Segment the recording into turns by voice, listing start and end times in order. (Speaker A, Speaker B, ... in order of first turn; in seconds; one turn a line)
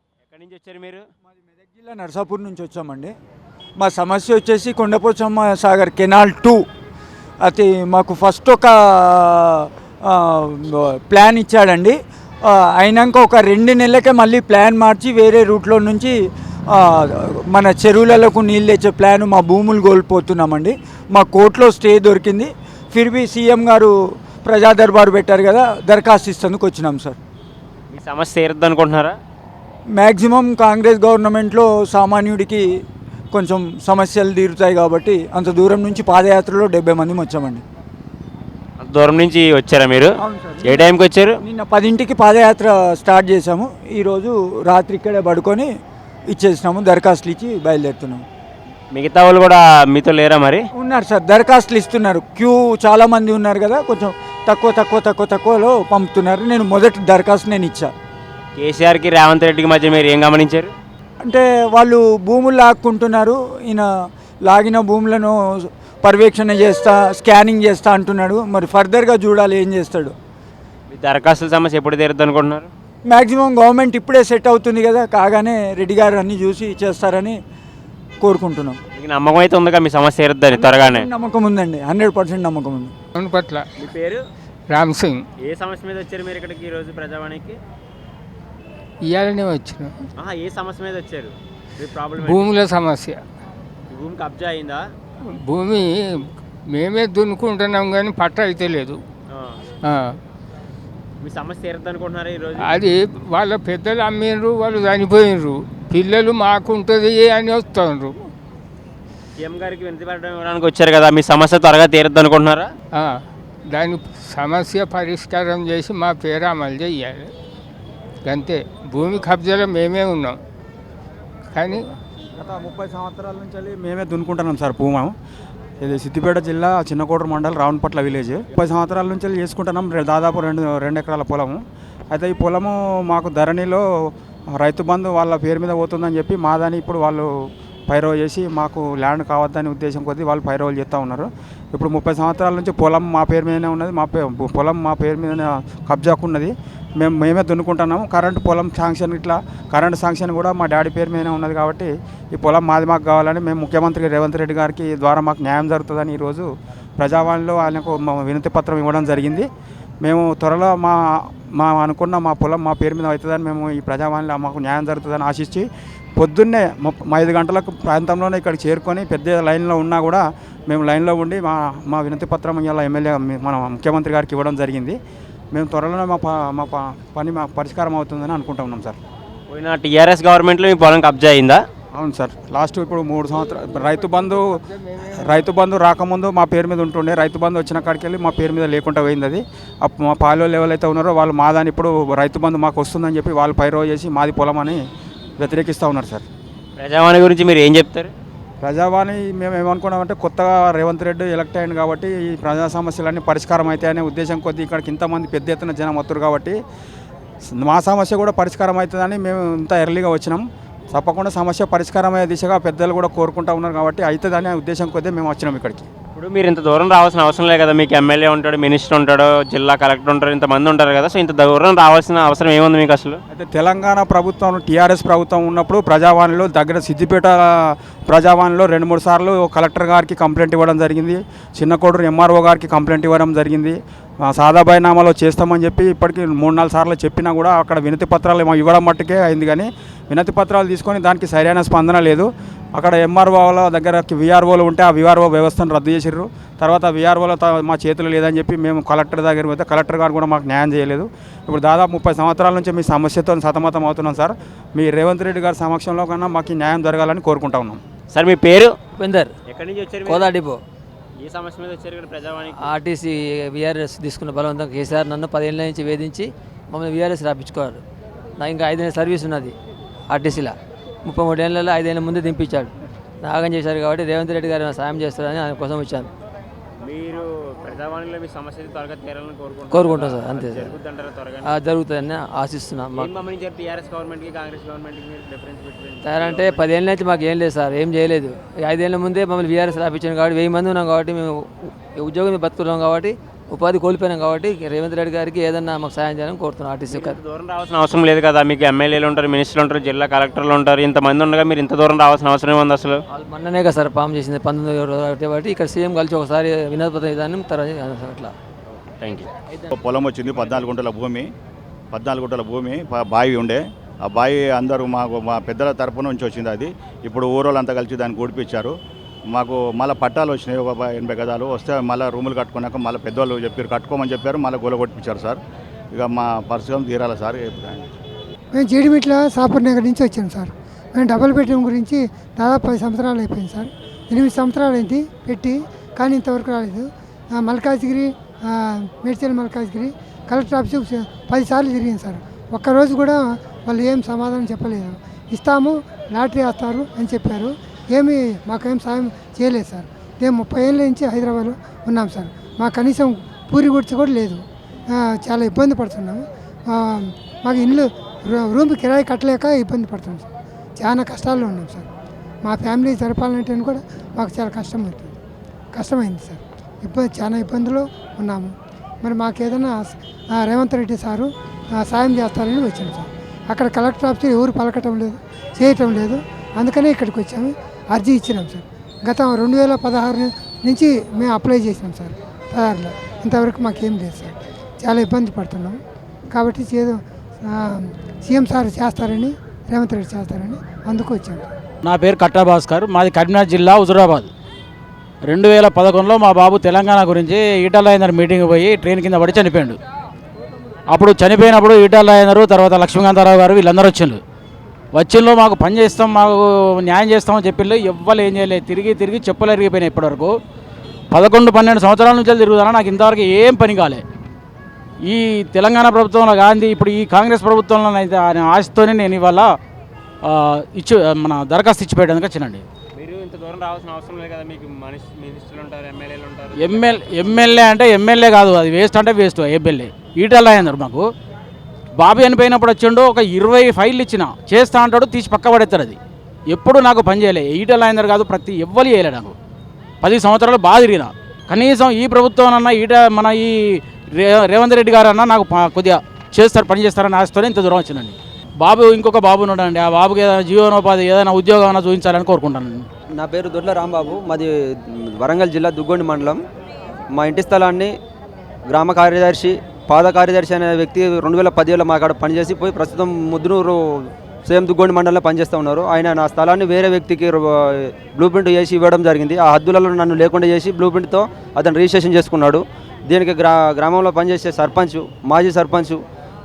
Speaker A: 0.2-1.1
Speaker B: 1.3-3.1
Speaker B: 3.8-6.7
Speaker B: 7.4-16.1
Speaker B: 16.7-27.2
Speaker A: 27.9-29.2
Speaker B: 29.9-32.7
Speaker B: 33.3-37.6
Speaker A: 38.8-40.1
Speaker B: 40.2-45.7
Speaker A: 40.7-41.3
Speaker B: 46.3-48.2
Speaker A: 48.9-50.6
Speaker B: 50.7-57.9
Speaker A: 58.6-60.7
Speaker B: 61.2-63.9
Speaker B: 64.4-70.1
Speaker A: 70.9-72.7
Speaker B: 73.0-77.4
Speaker B: 78.2-78.8
Speaker A: 78.9-81.0
Speaker B: 80.5-82.9
Speaker C: 83.2-83.7
Speaker A: 83.8-84.2
Speaker C: 84.7-85.2
Speaker A: 85.4-87.6
Speaker C: 89.0-90.0
Speaker A: 90.2-92.6
Speaker C: 92.2-93.2
Speaker A: 93.9-94.9
Speaker C: 95.4-99.0
Speaker A: 99.3-99.6
Speaker C: 99.8-100.2
Speaker A: 101.2-102.8
Speaker C: 102.6-108.2
Speaker A: 109.4-112.7
Speaker C: 113.0-117.3
Speaker C: 118.2-120.4
Speaker C: 121.5-121.8
Speaker D: 122.4-125.1
Speaker D: 125.8-137.3
Speaker D: 137.9-159.5
Speaker D: 160.0-174.9
Speaker D: 175.5-179.0
Speaker A: 179.5-181.6
Speaker D: 181.9-184.6
Speaker C: 183.8-185.4
Speaker D: 185.2-194.8
Speaker D: 195.4-196.3
Speaker A: 196.8-198.1
Speaker D: 198.6-206.6
Speaker D: 207.4-215.9
Speaker A: 216.1-223.2
Speaker D: 223.3-257.8
Speaker A: 258.1-258.8
Speaker E: 258.9-259.3
Speaker A: 259.5-260.3
Speaker E: 260.1-260.6
Speaker A: 261.2-262.7
Speaker E: 262.6-267.8
Speaker E: 268.4-269.5
Speaker E: 270.1-276.1
Speaker A: 276.8-281.5
Speaker E: 279.7-280.8
Speaker E: 281.4-283.1
Speaker A: 283.0-286.7
Speaker E: 286.0-297.2
Speaker A: 296.9-303.0
Speaker E: 303.1-308.3
Speaker A: 308.7-309.3
Speaker F: 309.7-311.3
Speaker F: 311.9-318.7
Speaker F: 319.3-325.4
Speaker F: 325.9-327.9
Speaker G: 328.5-354.4
Speaker G: 354.9-360.2
Speaker G: 360.8-361.9
Speaker G: 362.4-365.1
Speaker G: 365.7-385.8
Speaker G: 386.3-391.5
Speaker H: 391.8-394.3
Speaker H: 395.3-399.8
Speaker H: 400.9-404.2
Speaker H: 404.9-410.3
Speaker H: 411.1-414.0
Speaker H: 415.1-419.5
Speaker H: 420.2-422.6
Speaker A: 422.9-427.7
Speaker H: 426.6-431.0
Speaker H: 432.0-436.0
Speaker H: 436.5-439.3
Speaker H: 440.0-452.8
Speaker I: 453.1-456.4
Speaker I: 457.1-457.9
Speaker I: 458.7-476.0